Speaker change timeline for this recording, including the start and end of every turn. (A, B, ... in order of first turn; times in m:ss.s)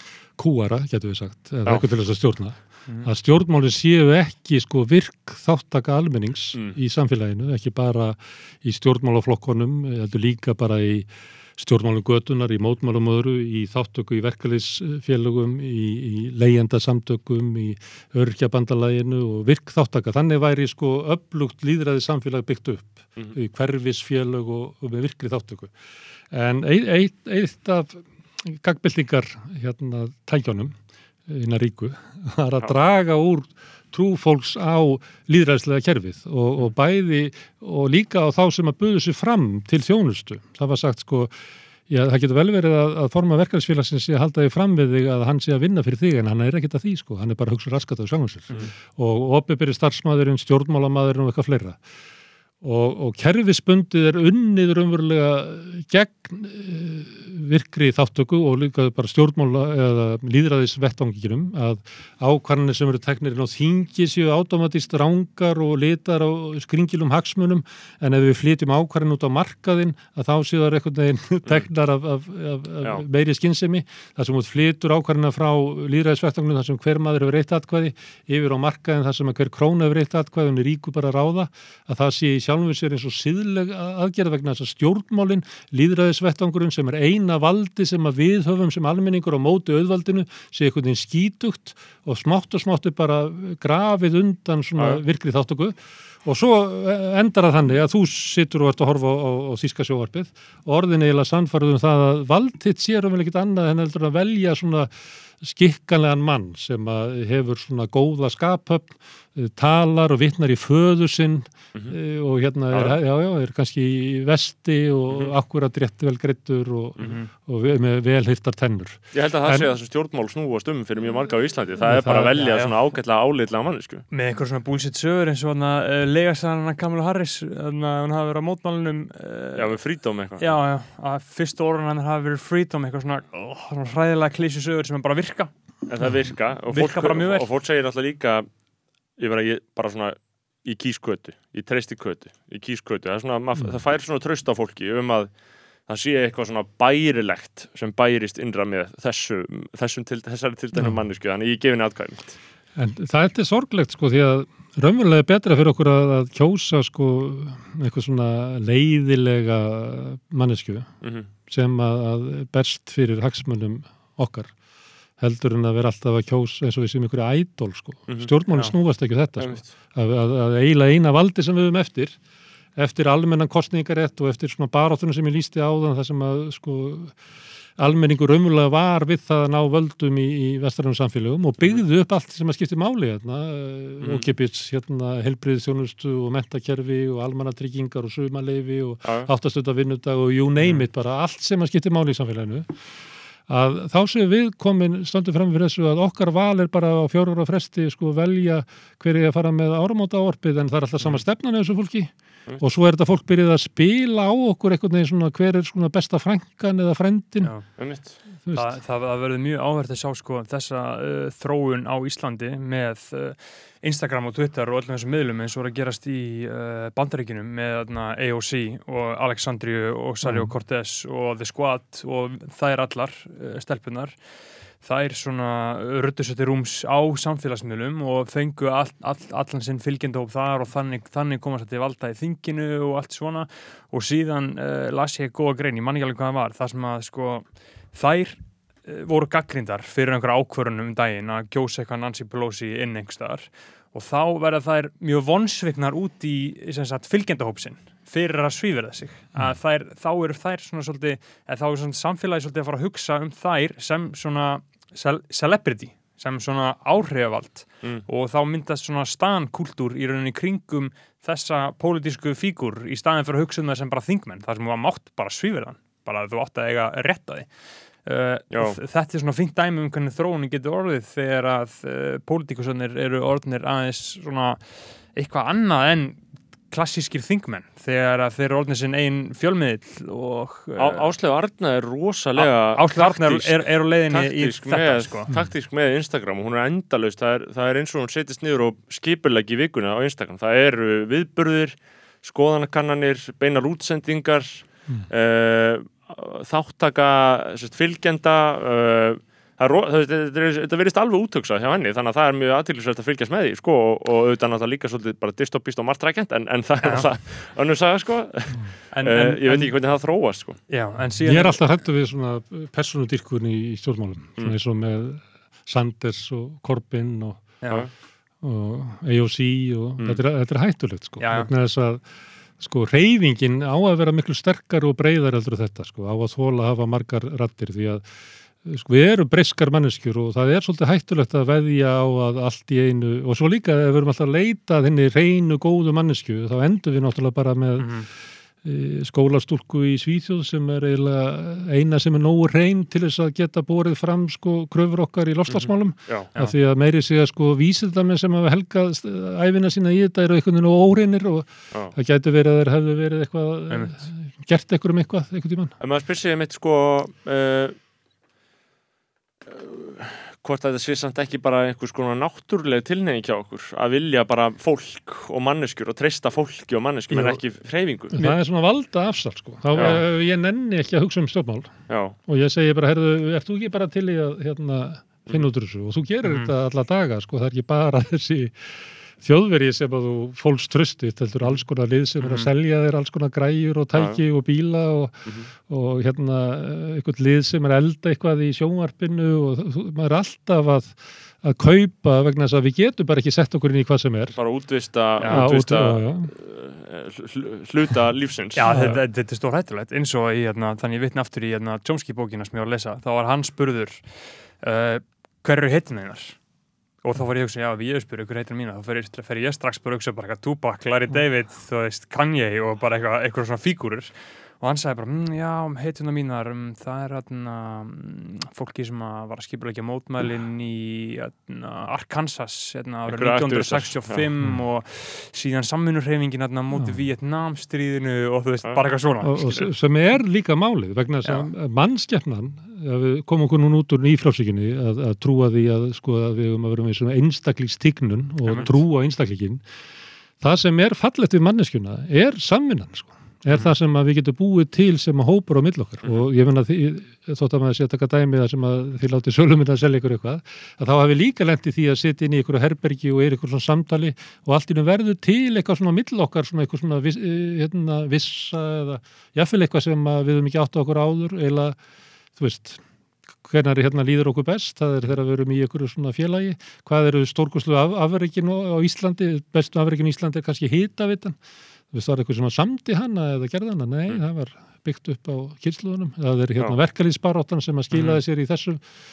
0:00.4-0:25.7 A
0:26.3-0:30.8 A
0:31.3-0:41.4 A
0:41.9-0:51.8 A
0:52.6-1:59.7 A
1:34.8-1:35.0 B
1:52.7-1:53.0 B
1:57.0-1:57.3 C
1:59.1-2:04.1 B
2:01.8-2:02.4 A
2:02.2-2:02.8 C
2:04.1-2:09.7 C
2:09.6-2:10.5 B
2:10.4-2:15.5 C
2:15.9-2:18.5 B
2:16.7-2:17.5 C
2:19.2-2:25.3 B
2:25.9-2:32.4 B
2:32.8-2:40.9 A
2:41.0-2:41.3 B
2:41.5-2:44.5 A
2:45.2-2:52.2 A
2:49.4-2:49.7 B
2:52.8-2:57.2 A
2:57.8-3:12.8 A
3:04.0-3:04.3 B
3:13.5-3:27.5 A
3:27.8-3:28.2 B
3:28.4-3:28.8 A
3:28.5-3:44.2 C
3:40.2-3:40.5 A
3:44.8-4:34.6 C
4:28.5-4:28.8 B
4:35.1-4:41.1 C
4:40.8-5:10.6 B
4:42.4-4:45.3 C
5:06.8-5:07.1 C
5:08.9-5:09.8 C
5:10.7-5:11.6 C
5:11.2-5:17.5 A
5:17.6-5:17.9 C
5:18.4-5:22.0 A
5:21.2-5:21.5 C
5:22.6-5:28.0 A
5:28.6-5:37.9 A
5:37.8-5:38.1 C
5:38.6-5:55.7 A
5:45.5-5:46.3 B
5:53.7-5:54.0 C
5:55.8-5:57.8 B
5:59.5-6:08.2 B
6:07.1-6:07.4 C
6:08.1-6:11.7 A
6:09.7-6:10.0 B
6:11.9-6:12.2 B
6:12.3-6:18.6 A
6:16.2-6:16.5 C
6:19.2-6:34.4 A
6:22.2-6:22.5 C
6:23.9-6:24.2 B
6:34.4-6:39.0 B
6:35.2-6:35.5 C
6:35.3-6:36.3 A
6:38.6-6:46.4 C
6:38.7-6:39.0 A
6:47.0-7:09.6 C
7:03.1-7:04.3 B
7:06.8-7:07.0 A
7:09.2-7:19.6 A
7:18.5-7:18.7 C
7:20.4-7:41.8 A
7:42.4-7:42.8 A
7:43.4-7:51.4 A
7:51.9-7:58.8 A